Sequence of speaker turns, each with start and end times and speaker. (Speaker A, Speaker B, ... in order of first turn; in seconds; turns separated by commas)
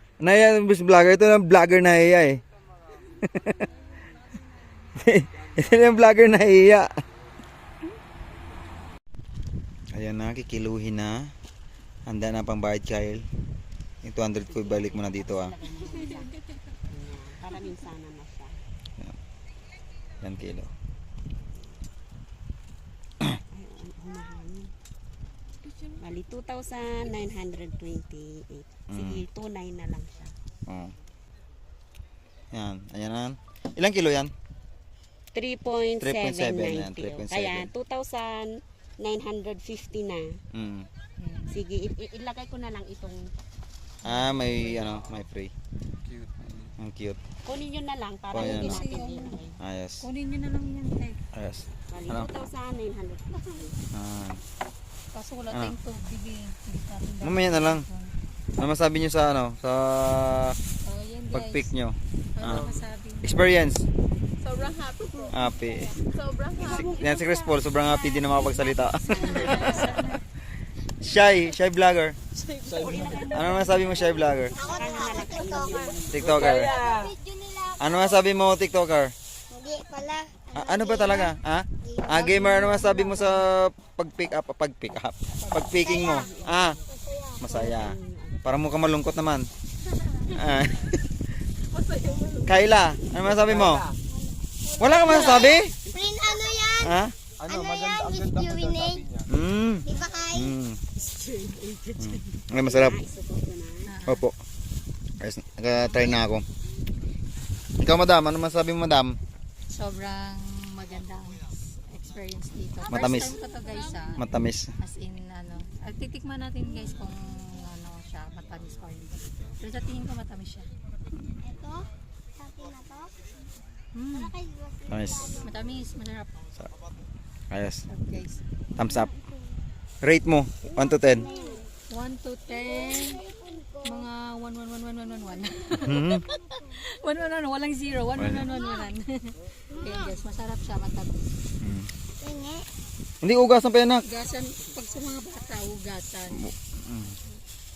Speaker A: 0.2-2.4, Speaker A: 3.2-3.7, Speaker A: 4.9-6.9, Speaker A: 9.9-11.3, Speaker A: 12.1-13.3, Speaker A: 14.0-15.5, Speaker B: 14.3-16.3, Speaker B: 16.9-18.6, Speaker A: 20.2-20.7, Speaker B: 21.5-21.8, Speaker B: 23.5-24.7, Speaker B: 26.0-30.3, Speaker A: 28.9-29.2, Speaker A: 30.7-30.9, Speaker A: 32.5-34.3, Speaker B: 35.3-40.3, Speaker A: 36.0-37.7, Speaker A: 40.5-40.9, Speaker C: 41.2-41.6, Speaker B: 41.5-43.2, Speaker A: 44.0-45.5, Speaker C: 44.0-44.5, Speaker A: 46.8-47.2, Speaker B: 47.4-49.6, Speaker A: 48.3-48.9, Speaker C: 48.3-49.4, Speaker A: 49.6-50.0, Speaker C: 50.0-51.2, Speaker A: 51.3-52.3, Speaker B: 51.9-53.8, Speaker A: 53.9-54.4, Speaker C: 55.1-58.1, Speaker A: 55.5-55.7, Speaker A: 57.2-57.9, Speaker A: 58.6-60.6, Speaker C: 60.8-61.7, Speaker A: 61.3-62.6, Speaker C: 62.3-63.4, Speaker A: 63.2-63.9, Speaker D: 64.4-65.3, Speaker A: 65.3-66.0, Speaker D: 66.0-66.6, Speaker A: 66.6-69.9, Speaker B: 66.7-69.9, Speaker C: 69.1-70.2, Speaker E: 69.3-69.8, Speaker A: 71.0-72.2, Speaker D: 72.4-72.9, Speaker B: 72.7-76.7, Speaker A: 73.1-74.6, Speaker E: 74.5-78.2, Speaker A: 76.1-76.7, Speaker A: 77.8-79.1, Speaker E: 79.5-83.1, Speaker A: 80.5-86.8, Speaker B: 82.9-83.3, Speaker B: 85.5-86.8, Speaker E: 85.7-86.3, Speaker E: 86.9-87.4, Speaker A: 87.4-89.5, Speaker B: 87.4-88.5, Speaker A: 90.3-91.2, Speaker A: 92.4-93.9, Speaker E: 94.1-99.2, Speaker A: 94.8-95.7, Speaker B: 95.9-96.4, Speaker A: 96.8-97.1, Speaker A: 99.2-100.8, Speaker E: 99.8-100.5, Speaker B: 101.3-101.6, Speaker A: 102.0-103.0, Speaker B: 102.6-103.9, Speaker C: 103.8-104.3, Speaker A: 104.1-104.3, Speaker A: 105.2-106.4, Speaker A: 107.8-109.2, Speaker C: 109.7-114.3, Speaker A: 112.9-113.4, Speaker A: 114.2-114.7, Speaker C: 114.8-120.7, Speaker E: 121.4-123.1, Speaker C: 123.9-124.3, Speaker E: 124.1-125.5, Speaker A: 124.9-125.5, Speaker C: 125.3-126.3, Speaker A: 127.5-127.8, Speaker C: 127.9-128.4, Speaker A: 128.8-129.1, Speaker E: 128.8-129.4, Speaker A: 130.0-131.3, Speaker E: 130.7-131.7, Speaker C: 131.9-133.2, Speaker E: 132.7-134.0, Speaker C: 133.8-141.3, Speaker A: 135.8-136.2, Speaker A: 138.2-138.5, Speaker E: 139.7-140.1, Speaker A: 141.6-141.9, Speaker E: 142.2-142.7, Speaker A: 143.2-144.0, Speaker C: 144.0-146.5, Speaker A: 146.3-147.1